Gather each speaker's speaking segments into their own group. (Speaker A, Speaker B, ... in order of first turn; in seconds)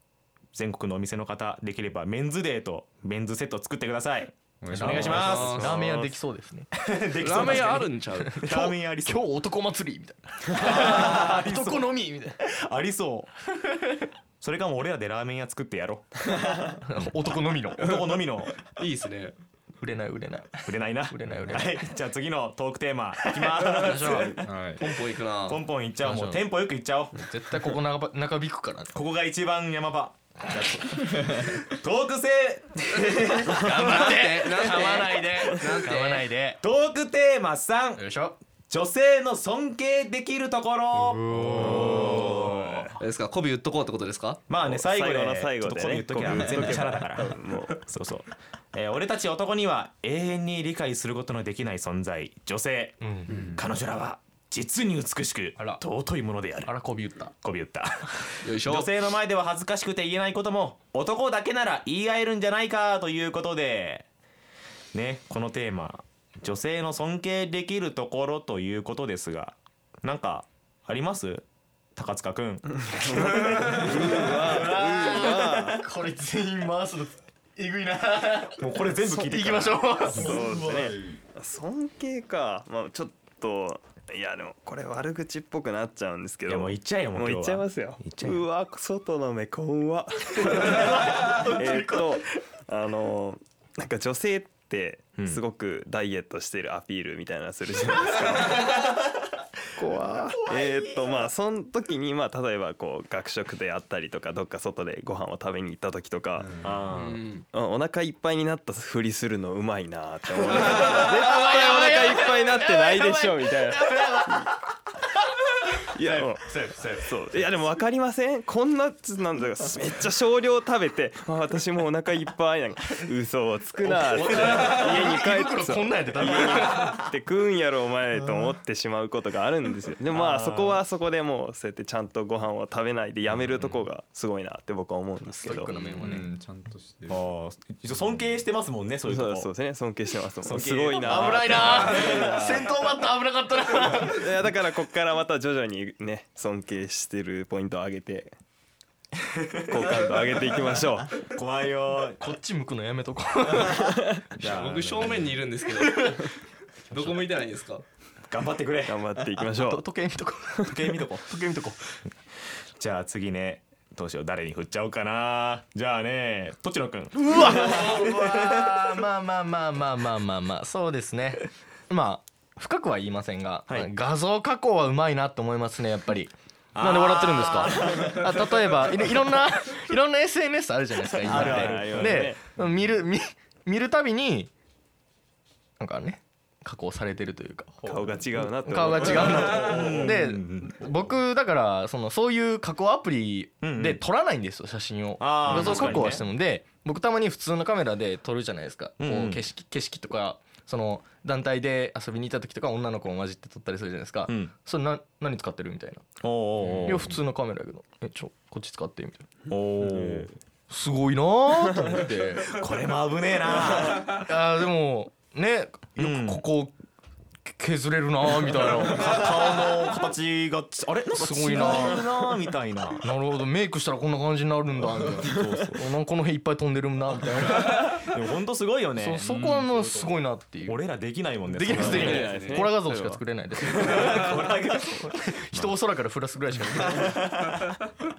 Speaker A: 0.5-5.8, 6.8-9.3, 10.5-13.5, 14.4-16.3, 17.8-18.6, 20.6-24.5, 25.4-27.2, 28.9-34.2, 36.6-38.1, 38.7-42.9, 44.5-56.8, 57.4-64.0, 64.9-74.2, 78.6-80.2, 86.5-88.4, 95.2-95.4, 106.6-107.2, 137.1-139.5, 140.4-142.2, 149.3-150.5, 151.2-152.2, 154.3-155.4, 158.3-159.0, 160.7-161.3, 162.8-169.0, 176.7-178.3, 181.2-182.3, 189.2-190.8, 193.6-194.0, 195.2-196.2, 199.0-199.4, 204.3-204.5, 206.2-207.1, 209.5-210.3, 212.5-214.3, 216.0-216.4, 218.6-223.1, 225.0-225.8, 227.8-229.4, 230.7-232.6, 233.6-235.8, 236.7-237.8
Speaker B: 4.6-5.4, 24.4-24.8, 41.3-42.3, 46.2-46.7, 53.3-53.6, 80.1-81.2, 106.4-106.7, 136.0-137.3, 187.8-188.4, 189.5-190.9, 229.2-230.2
Speaker C: 4.7-6.7, 7.5-12.4, 16.8-17.9, 19.8-21.8, 23.6-24.4, 26.0-26.4, 27.1-28.9, 33.2-36.6, 38.0-38.3, 40.9-43.0, 53.0-53.3, 56.6-57.3, 73.8-78.6, 79.2-80.4, 90.6-92.2, 99.8-101.1, 110.5-114.6, 115.6-117.1, 123.8-127.0, 130.1-130.8, 135.3-136.3, 141.0-144.2, 152.2-154.0, 155.8-156.3, 159.3-162.0, 167.1-184.5, 185.8-187.8, 188.6-206.0, 206.8-209.3, 210.7-212.5, 214.2-216.7, 217.5-219.2, 221.2-222.0, 223.0-228.1, 229.0-230.8, 231.5-237.1
Speaker D: 5.1-5.8, 7.2-8.4, 18.8-19.3, 24.8-25.6, 33.6-36.3, 43.0-44.4, 58.4-58.9, 106.9-107.4, 154.4-156.1, 156.9-157.8
Speaker E: 5.5-6.1, 44.5-47.8, 72.8-75.8, 79.0-79.3, 80.1-98.8, 100.5-106.7, 107.5-114.5, 115.9-135.7, 139.0-142.8, 143.9-148.3, 149.7-151.2, 153.8-154.2, 158.9-159.8, 181.2-182.5, 187.8-190.1, 195.5-196.0, 209.8-210.2, 225.2-225.6, 231.7-233.2, 233.9-234.2